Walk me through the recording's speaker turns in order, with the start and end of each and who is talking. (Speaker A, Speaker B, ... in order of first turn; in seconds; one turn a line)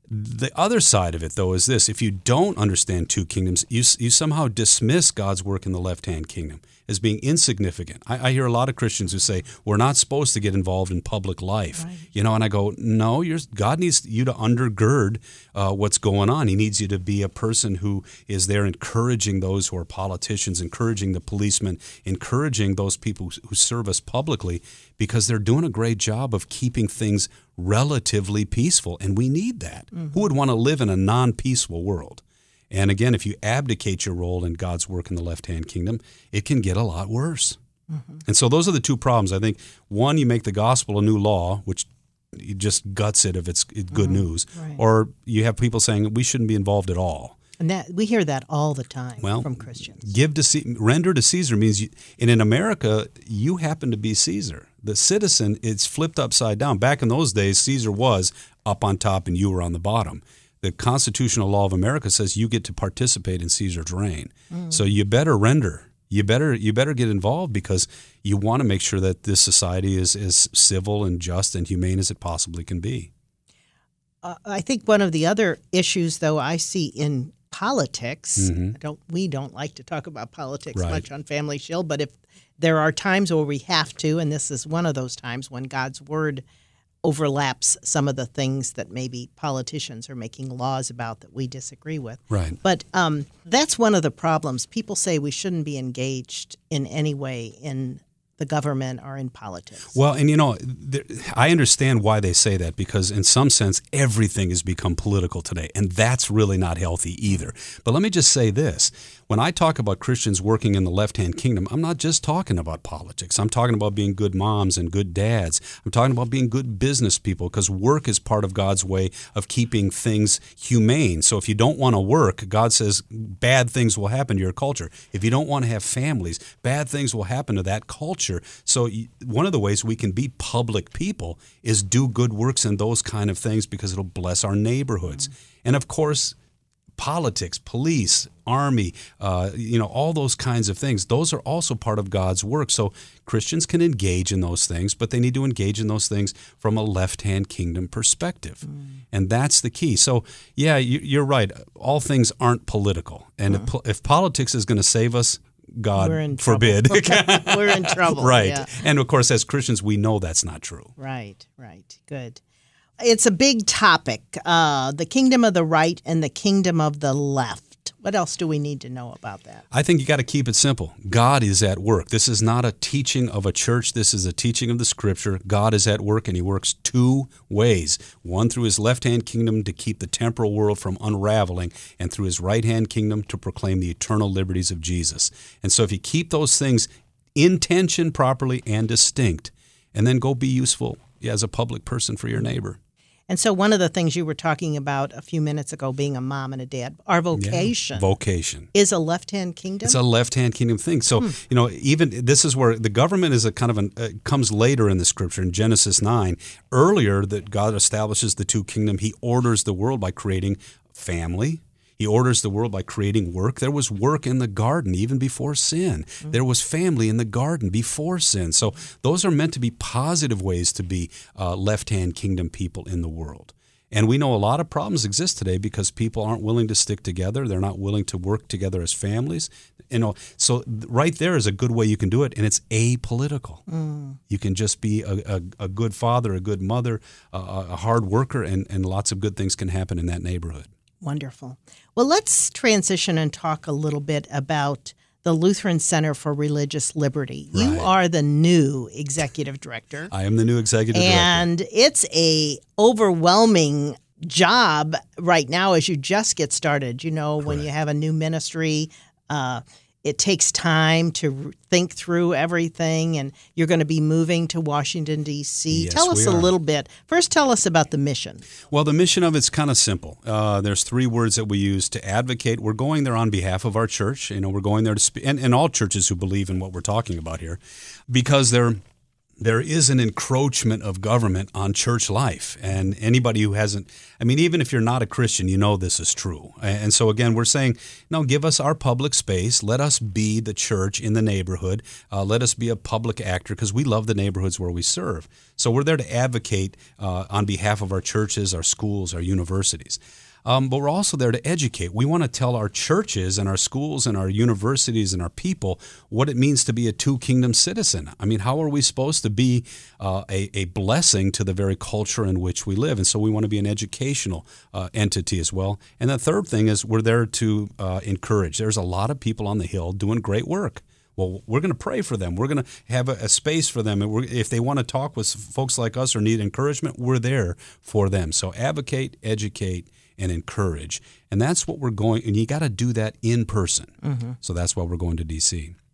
Speaker A: 0.1-37.6
Speaker B: 11.8-12.0
Speaker B: 37.9-38.2
Speaker A: 38.2-47.4
Speaker B: 43.9-44.8
Speaker B: 47.6-50.1
Speaker A: 49.2-73.1
Speaker B: 64.5-64.8
Speaker B: 74.2-86.4
Speaker A: 78.4-78.8
Speaker A: 80.8-81.0
Speaker B: 87.0-100.0
Speaker A: 92.3-92.6
Speaker A: 99.9-136.4
Speaker A: 137.0-160.9
Speaker B: 156.0-158.8
Speaker B: 161.0-162.4
Speaker B: 163.0-169.6
Speaker A: 169.7-192.8
Speaker B: 193.3-198.1
Speaker A: 197.3-198.7
Speaker B: 198.7-200.0
Speaker A: 199.8-233.6
Speaker B: 233.7-234.2
Speaker A: 234.3-240.7
Speaker B: 241.0-250.1
Speaker A: 247.5-247.9
Speaker A: 250.1-251.5
Speaker B: 250.9-268.4
Speaker A: 257.4-257.7
Speaker A: 265.7-266.5
Speaker A: 268.7-278.8
Speaker A: 279.4-335.8
Speaker B: 334.0-334.4